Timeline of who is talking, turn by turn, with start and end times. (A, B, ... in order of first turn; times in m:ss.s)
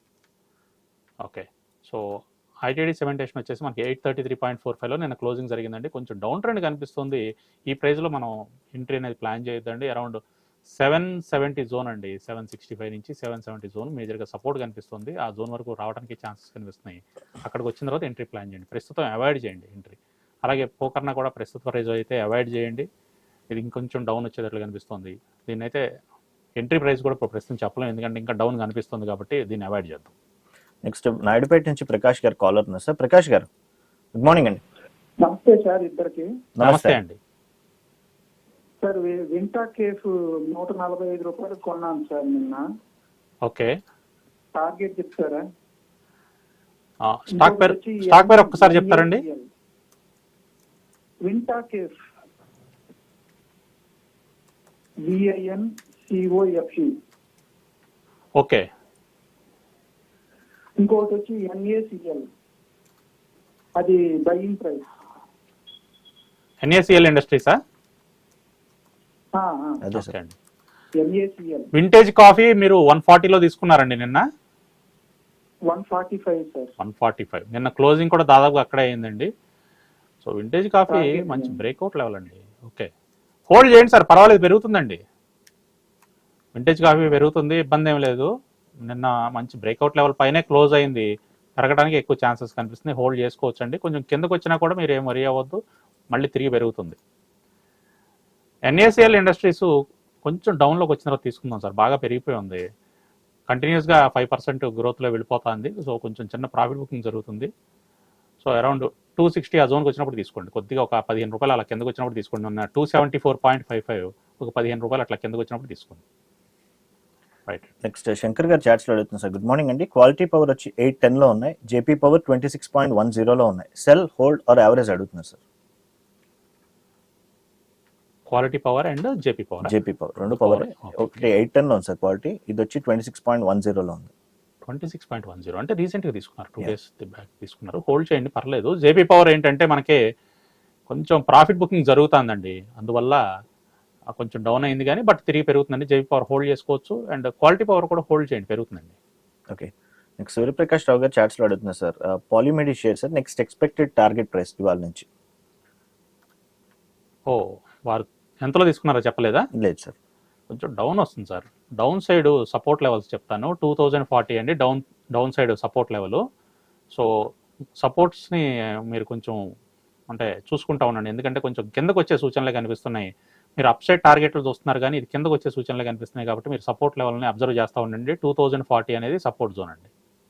0:01.2-0:10.2 A
0:10.7-0:22.9 A
0:23.5-0:25.8 A
0:26.6-0:30.1 A
0:30.8-0:33.5 B
0:34.1-0:34.6 B
0:35.2-0:36.3 C
0:36.6-0:37.0 B
0:36.6-0:37.2 A
0:38.8-0:42.6 C
0:43.4-0:43.7 A
0:44.6-0:45.4 C
0:47.0-0:49.2 A
0:47.3-0:49.5 C
0:51.2-0:51.9 C
0:55.0-0:56.9 C
0:58.4-0:58.6 A
1:00.8-1:02.3 C
1:03.8-1:04.9 C
1:06.6-1:07.6 A
1:09.3-1:09.8 C
1:09.8-1:10.1 B
1:09.9-1:10.3 A
1:11.0-1:11.7 C
1:11.7-1:14.2 A
1:15.7-1:16.7 C
1:16.8-1:19.3 A
1:20.2-1:22.9 A
1:20.9-1:21.6 C
1:23.5-1:25.0 A
1:26.6-1:28.3 A
1:28.8-1:35.6 A
1:36.1-1:37.0 A
1:38.7-1:39.7 A
1:40.2-1:42.6 A
1:43.5-1:47.5 A
1:48.4-1:56.0 A
1:57.8-2:05.4 B
2:08.3-2:09.7 A
2:09.6-2:14.1 B
2:10.3-2:11.2 A
2:14.6-2:20.0 A
2:20.9-2:23.2 A
2:24.2-2:29.0 A
2:29.5-2:35.1 B
2:37.3-2:39.4 A
2:39.6-2:39.9 B
2:40.5-2:46.2 A
2:46.9-2:47.3 A
2:47.8-2:49.4 A
2:50.1-2:59.9 A